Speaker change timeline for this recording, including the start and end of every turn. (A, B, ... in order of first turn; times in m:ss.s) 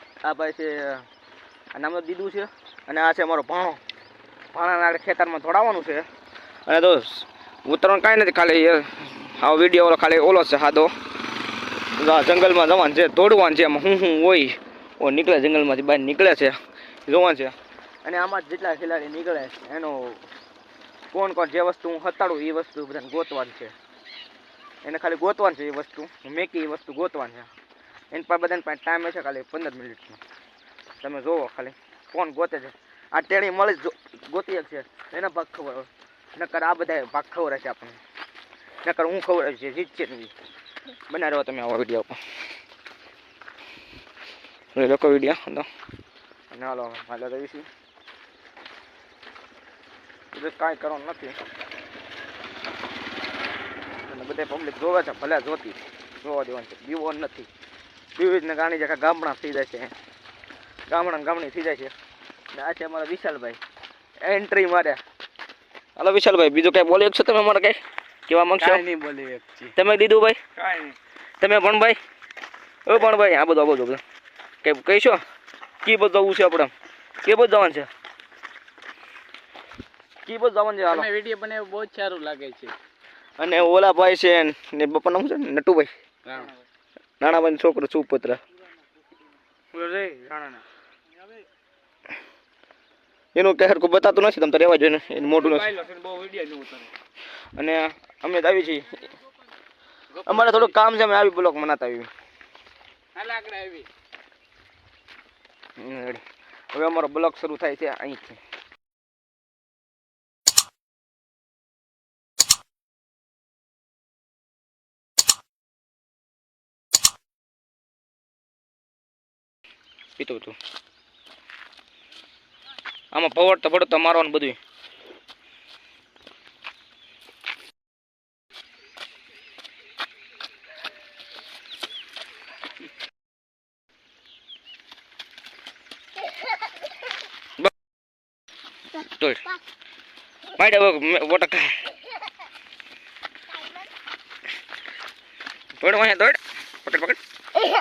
0:00.2-0:01.0 A
0:01.7-0:03.8 A
0:04.5-0:06.1 A
0:06.7-0:10.9 A
0:11.9-0:16.6 A
0:17.1-0:20.3 A
0:21.1-0:23.7 A
0:24.8-0:27.5 A
0:28.1-0:30.2 A
0:31.0-0:38.0 A
0:38.8-0:40.3 A
0:41.1-0:42.2 A
0:44.7-0:45.7 A
0:46.5-0:47.7 A
0:50.3-0:51.4 A
0:54.0-0:57.5 A
0:58.2-0:59.9 A
1:00.9-1:01.9 A
1:02.5-1:03.6 A
1:04.2-1:05.0 A
1:06.0-1:08.8 A
1:08.6-1:09.7 B
1:09.7-1:12.0 A
1:12.8-1:14.0 A
1:14.6-1:15.2 A
1:15.8-1:16.7 A
1:17.2-1:17.9 A
1:20.2-1:21.1 A
1:20.9-1:22.7 B
1:23.4-1:25.9 A
1:26.2-1:26.5 B
1:27.2-1:28.4 A
1:29.7-1:30.5 A
1:33.3-1:35.8 A
1:35.8-1:36.9 B
1:37.6-1:39.0 A
1:40.1-1:40.7 B
1:40.2-1:42.1 A
1:43.1-1:43.9 B
1:45.8-1:48.4 A
2:00.2-2:00.6 A
2:03.1-2:04.6 A
2:19.0-2:19.6 A
2:20.6-2:21.9 A
2:25.8-2:27.2 A